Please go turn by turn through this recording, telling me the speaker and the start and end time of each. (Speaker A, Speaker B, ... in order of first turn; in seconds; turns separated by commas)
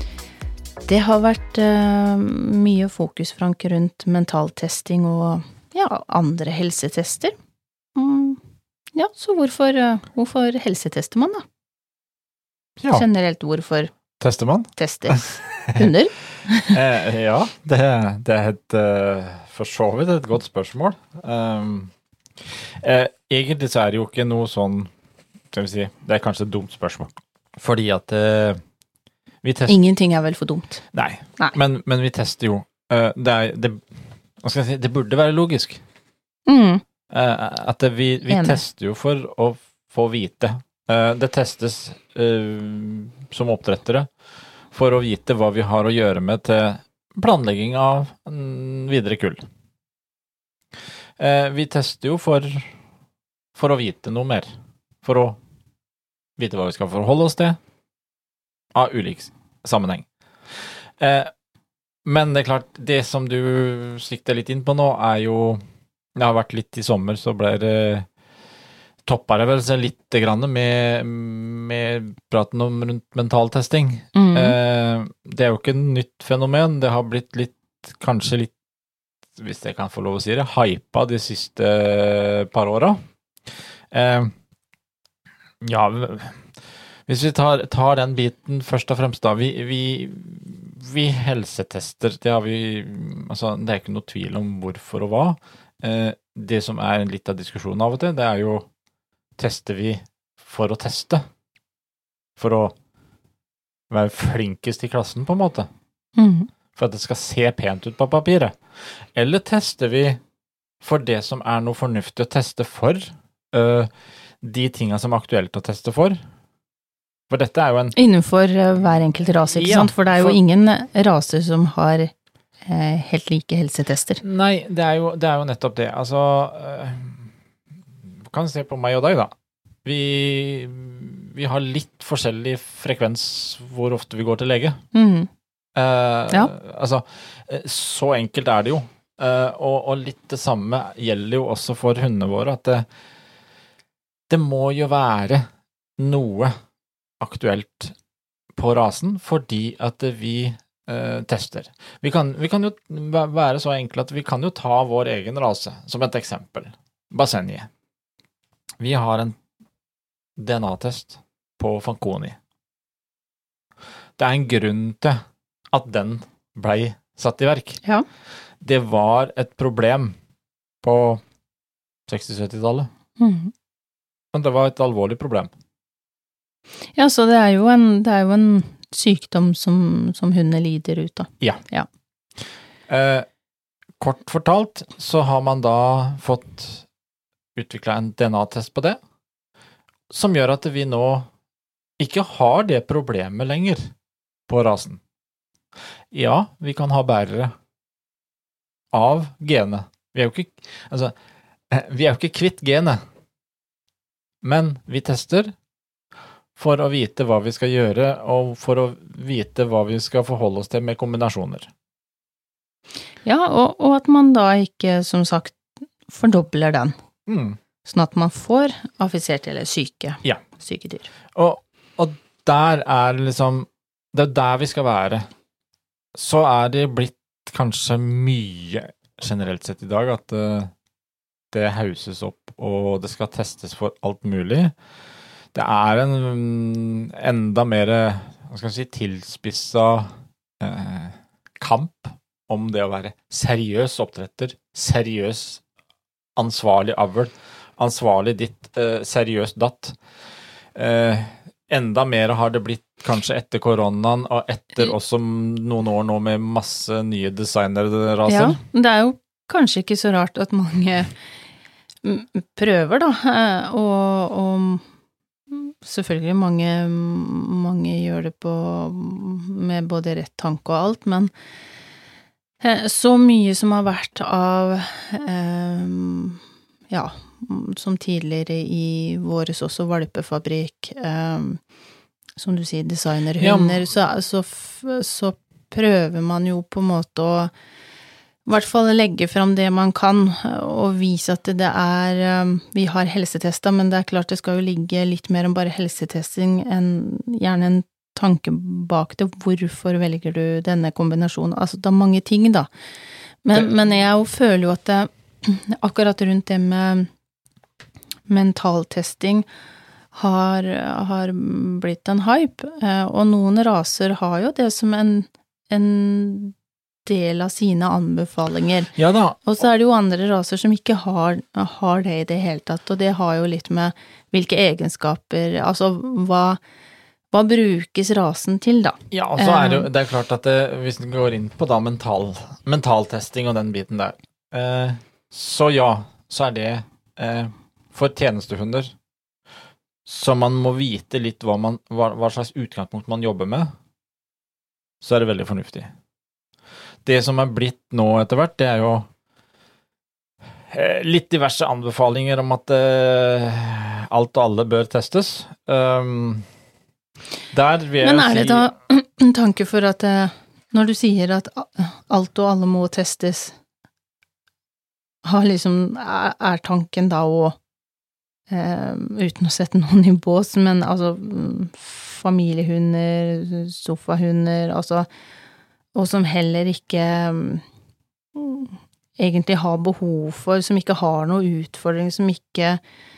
Speaker A: 0.9-7.3, Speaker A: 8.0-8.4, Speaker A: 8.9-11.4, Speaker B: 12.8-13.1, Speaker A: 12.9-13.9, Speaker B: 14.2-15.9, Speaker A: 14.8-16.8, Speaker B: 16.7-21.9, Speaker B: 22.5-24.9, Speaker B: 25.5-28.6, Speaker B: 29.4-29.8, Speaker A: 29.7-30.8, Speaker B: 30.9-33.9, Speaker B: 34.4-35.8, Speaker A: 36.5-36.8, Speaker B: 37.1-44.1, Speaker A: 38.3-38.6, Speaker B: 44.7-49.5, Speaker B: 51.2-52.7, Speaker B: 53.5-54.5, Speaker B: 55.0-55.4, Speaker B: 56.4-57.6, Speaker B: 58.7-60.1, Speaker B: 60.6-61.3, Speaker B: 62.0-65.6, Speaker B: 66.2-68.1, Speaker B: 69.0-78.5, Speaker A: 74.1-74.6, Speaker B: 79.4-84.3, Speaker B: 85.6-86.5, Speaker B: 87.1-98.7, Speaker B: 99.4-101.2, Speaker B: 102.4-102.7, Speaker B: 103.9-105.7, Speaker A: 106.2-106.5, Speaker B: 106.8-110.2, Speaker B: 110.8-113.9, Speaker B: 114.4-116.2, Speaker B: 117.3-118.0, Speaker A: 118.0-122.1, Speaker B: 119.5-120.4, Speaker A: 122.7-124.2, Speaker B: 124.2-127.3, Speaker B: 128.2-129.3, Speaker B: 129.8-134.8, Speaker A: 134.9-135.3, Speaker B: 135.8-142.9, Speaker B: 144.3-145.5, Speaker B: 146.0-146.5, Speaker B: 147.2-147.9, Speaker B: 148.5-157.7, Speaker B: 158.8-159.4, Speaker B: 160.4-162.4, Speaker B: 164.2-165.2, Speaker B: 165.7-167.8, Speaker B: 168.6-170.2, Speaker B: 170.8-171.2, Speaker B: 172.1-172.9, Speaker A: 173.2-173.5, Speaker B: 174.3-175.5, Speaker A: 176.9-181.9, Speaker B: 182.9-183.3, Speaker B: 184.0-186.9, Speaker B: 187.6-189.0, Speaker B: 190.1-191.3, Speaker B: 192.0-193.9, Speaker B: 194.5-195.0, Speaker B: 196.1-197.5, Speaker B: 198.9-201.1, Speaker B: 201.7-203.0, Speaker B: 204.4-205.5, Speaker B: 206.6-211.7, Speaker A: 213.2-216.9, Speaker B: 217.3-217.6, Speaker A: 217.8-221.1, Speaker B: 221.3-225.3, Speaker B: 226.2-230.7, Speaker B: 231.5-234.7, Speaker B: 235.5-245.6, Speaker B: 246.4-250.0, Speaker B: 250.8-258.6, Speaker A: 258.3-261.1, Speaker A: 262.0-264.9, Speaker A: 265.5-271.3, Speaker A: 272.6-281.6, Speaker A: 282.4-287.5, Speaker B: 283.4-283.9, Speaker A: 288.5-302.7, Speaker A: 303.4-307.1, Speaker A: 308.3-309.5, Speaker A: 310.1-316.6, Speaker A: 317.1-318.9, Speaker B: 318.9-319.4, Speaker A: 319.4-326.6, Speaker A: 327.3-329.9, Speaker B: 329.1-338.9, Speaker B: 340.1-343.7, Speaker B: 345.0-345.9, Speaker B: 347.1-349.1, Speaker B: 350.7-356.4, Speaker B: 357.5-358.7, Speaker A: 358.0-363.6, Speaker A: 365.2-367.6, Speaker A: 368.5-375.1, Speaker A: 375.9-377.6, Speaker A: 378.4-382.8